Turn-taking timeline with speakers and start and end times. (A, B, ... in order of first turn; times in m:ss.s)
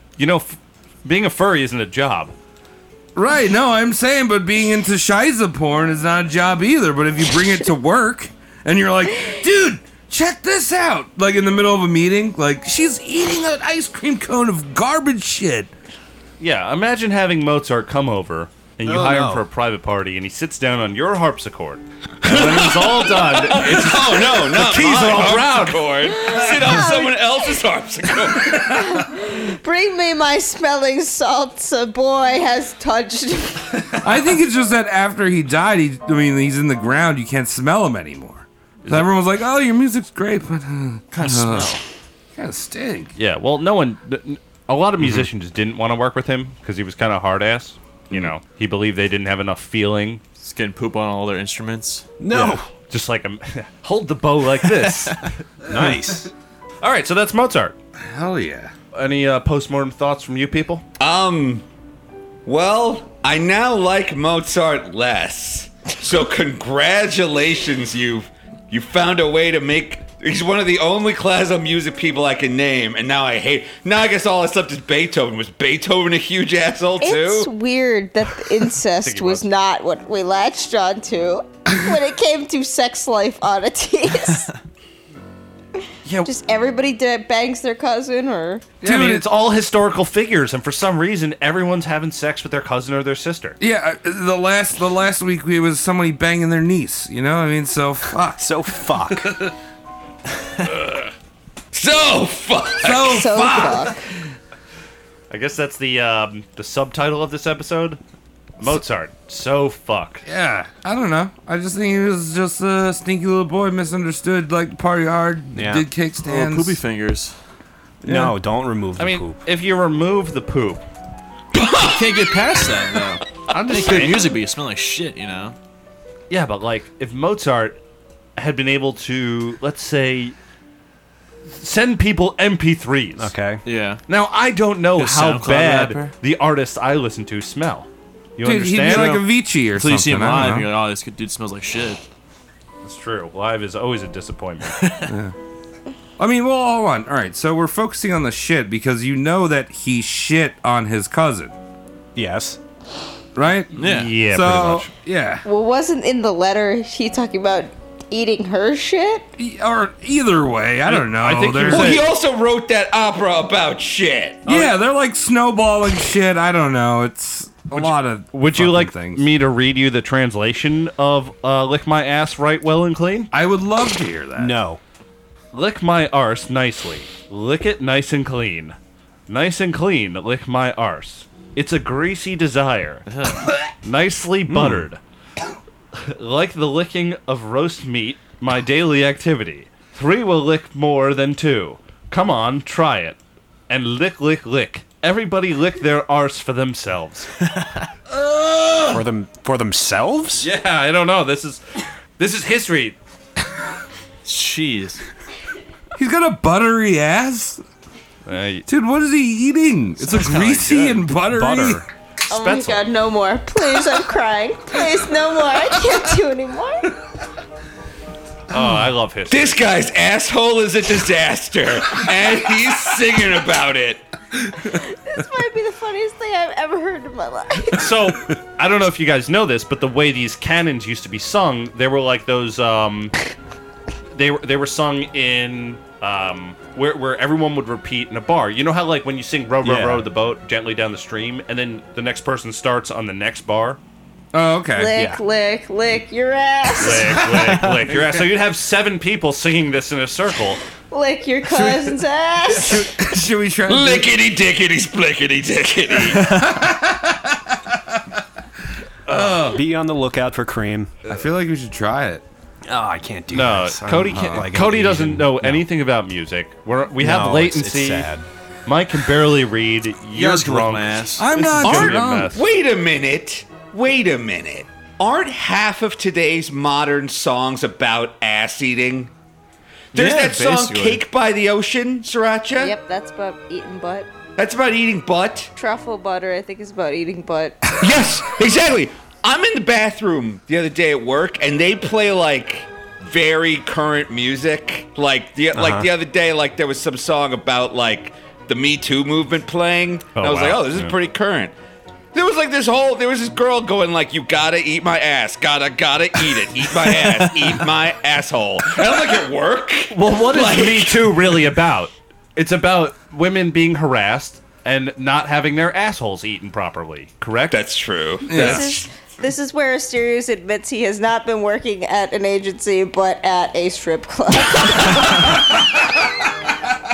0:00.2-0:02.3 A
0:03.1-0:15.7 B
0:16.4-0:25.9 A
0:18.8-0:19.4 C
0:22.2-0:28.7 D
0:26.1-0:27.6 E
0:28.5-0:34.0 E
0:34.0-0:41.8 B
0:38.8-0:39.1 A
0:41.1-0:41.8 F
0:42.4-0:43.1 B
0:43.2-0:50.2 A
0:45.0-0:45.3 C
0:50.4-0:52.4 F
0:52.2-0:52.6 C
0:52.9-0:55.3 A
0:55.7-0:56.3 C
0:55.7-0:56.1 B
0:56.8-0:57.7 A
0:58.0-0:58.7 B
0:58.9-1:00.8 A
1:01.0-1:01.6 D
1:02.4-1:17.5 D
1:17.0-1:24.5 E
1:19.0-1:19.5 A
1:26.0-1:26.3 A
1:26.2-1:28.7 E
1:28.8-1:29.3 B
1:28.8-1:33.6 A
1:33.6-1:39.5 B
1:38.4-1:39.4 C
1:41.7-1:43.8 D
1:42.8-1:43.9 B
1:43.0-1:44.0 E
1:45.3-1:48.0 A
1:48.6-1:50.2 A
1:50.2-1:56.8 B
1:55.5-1:55.9 C
1:56.2-1:57.3 F
1:58.0-1:58.4 B
1:58.0-1:59.4 C
1:59.0-2:00.8 A
2:01.5-2:02.3 D
2:01.8-2:05.6 F
2:03.5-2:04.2 A
2:06.3-2:07.8 A
2:08.4-2:10.3 A
2:11.5-2:13.3 A
2:13.2-2:13.6 C
2:13.6-2:14.0 F
2:14.1-2:19.2 A
2:15.0-2:16.1 F
2:18.4-2:20.7 B
2:18.8-2:22.0 F
2:22.8-2:24.8 A
2:24.8-2:25.1 F
2:25.1-2:25.3 B
2:26.2-2:31.5 B
2:32.1-2:32.6 C
2:33.3-2:35.4 B
2:33.8-2:34.1 F
2:33.8-2:34.9 A
2:35.4-2:39.3 E
2:39.4-2:42.1 B
2:40.9-2:42.0 A
2:41.7-2:44.5 D
2:44.4-2:44.7 A
2:44.4-2:49.3 B
2:47.7-2:53.3 A
2:53.3-2:54.6 B
2:54.4-2:54.8 C
2:55.5-2:58.8 A
2:59.3-3:03.0 A
3:03.1-3:03.5 F
3:03.8-3:05.0 A
3:04.5-3:04.9 C
3:05.9-3:13.2 A
3:13.7-3:17.3 A
3:17.6-3:17.8 F
3:18.1-3:19.0 B
3:18.9-3:20.5 C
3:20.4-3:21.6 A
3:22.2-3:23.0 A
3:24.2-3:25.0 F
3:26.0-3:27.6 B
3:28.2-3:28.7 A
3:28.7-3:31.8 B
3:30.0-3:31.1 F
3:31.2-3:31.8 C
3:32.3-3:32.8 A
3:32.3-3:37.0 E
3:38.5-3:39.6 A
3:39.3-3:44.1 D
3:44.6-3:47.9 E
3:47.7-3:53.1 A
3:54.1-4:03.8 A
3:59.6-4:00.1 C
4:04.3-4:04.9 B
4:04.8-4:07.6 E
4:05.0-4:05.2 C
4:06.8-4:10.6 A
4:10.9-4:12.9 E
4:11.5-4:14.1 B
4:13.7-4:16.3 D
4:16.1-4:18.0 B
4:19.1-4:19.6 B
4:19.2-4:20.9 C
4:21.1-4:22.2 B
4:22.7-4:25.6 C
4:23.3-4:28.1 A
4:24.1-4:24.4 B
4:27.0-4:28.2 C
4:28.6-4:32.4 A
4:30.1-4:31.8 F
4:31.2-4:32.3 B
4:31.8-4:39.1 D
4:39.9-4:41.0 F
4:39.9-4:42.7 D
4:42.5-4:44.1 E
4:44.4-4:45.5 D
4:45.6-4:47.8 E
4:47.8-5:01.5 D
4:55.5-4:55.9 C
5:00.1-5:01.0 A
5:02.1-5:11.4 D
5:07.1-5:07.5 F
5:09.9-5:17.7 A
5:17.5-5:18.8 D
5:18.3-5:18.8 B
5:18.3-5:25.4 E